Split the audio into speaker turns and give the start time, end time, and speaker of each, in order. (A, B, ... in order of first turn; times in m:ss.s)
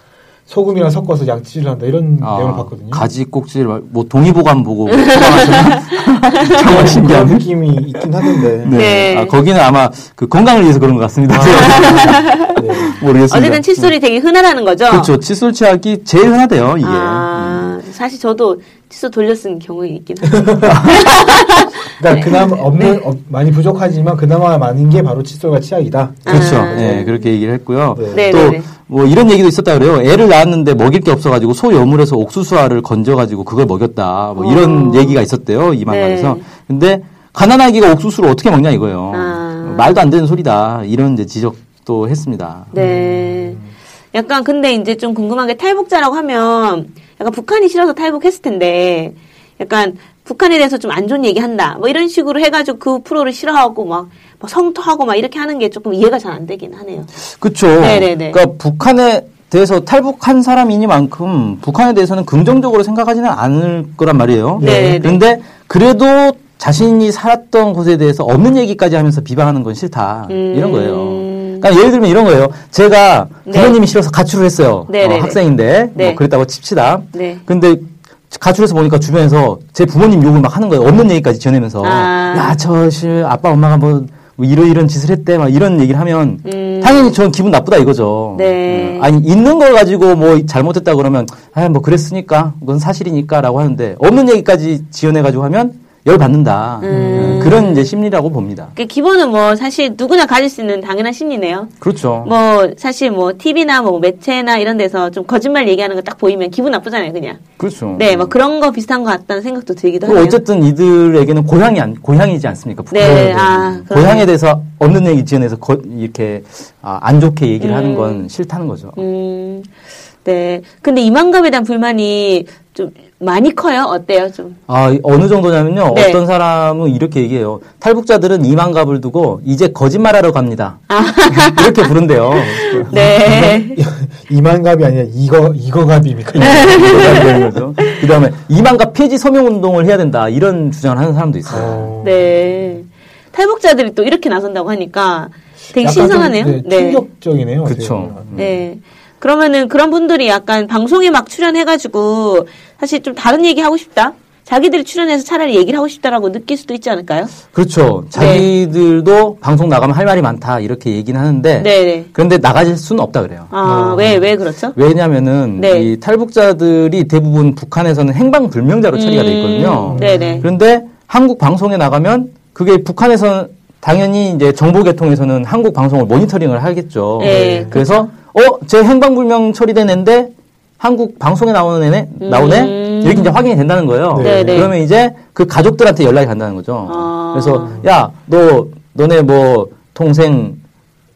0:00.5-0:03.1 A
0:02.2-0:07.5 B
0:04.9-0:05.9 C
0:06.5-0:08.8 A
0:08.2-0:13.9 B
0:08.7-0:09.4 C
0:11.3-0:13.0 A
0:11.6-0:12.6 C
0:13.3-0:15.1 C
0:14.9-0:17.8 B
0:16.8-0:22.9 C
0:20.3-0:21.2 A
0:20.7-0:21.1 B
0:21.8-0:27.2 A
0:26.2-0:27.1 C
0:26.3-0:42.7 B
0:27.9-0:28.4 A
0:28.1-0:28.7 C
0:34.4-0:35.2 C
0:35.9-0:36.5 C
0:39.1-0:40.0 C
0:42.7-0:43.6 C
0:42.7-0:43.7 A
0:44.1-0:57.1 C
0:57.3-1:38.7 B
0:57.8-0:58.4 C
1:04.6-1:05.2 C
1:04.6-1:05.0 A
1:10.3-1:11.7 C
1:13.5-1:13.8 C
1:14.9-1:16.2 C
1:17.1-1:17.4 C
1:21.8-1:22.6 C
1:26.4-1:27.2 C
1:28.3-1:29.1 C
1:36.8-1:38.0 C
1:36.9-1:37.6 A
1:38.8-1:47.4 C
1:41.8-1:42.3 B
1:47.6-1:48.4 B
1:48.0-1:50.4 C
1:50.0-1:59.0 B
1:52.9-1:54.3 C
1:57.6-1:58.3 C
1:59.0-1:59.7 C
2:00.2-2:04.6 C
2:04.7-2:13.4 B
2:05.9-2:06.2 C
2:10.9-2:13.8 C
2:12.9-2:17.6 A
2:16.4-2:17.9 C
2:16.4-2:21.9 B
2:21.5-2:22.5 A
2:22.0-2:27.1 C
2:25.7-2:28.6 A
2:27.6-2:28.6 B
2:28.4-2:37.4 C
2:37.5-2:43.5 B
2:38.1-2:38.5 C
2:41.6-2:42.1 C
2:43.5-2:44.8 C
2:43.6-2:44.3 A
2:44.7-3:10.6 B
2:45.6-2:45.9 C
2:48.9-2:50.5 C
2:49.9-2:50.5 A
2:57.2-2:58.1 C
2:57.2-2:57.8 A
3:02.2-3:03.4 C
3:04.1-3:04.7 A
3:04.2-3:04.8 C
3:06.9-3:07.8 C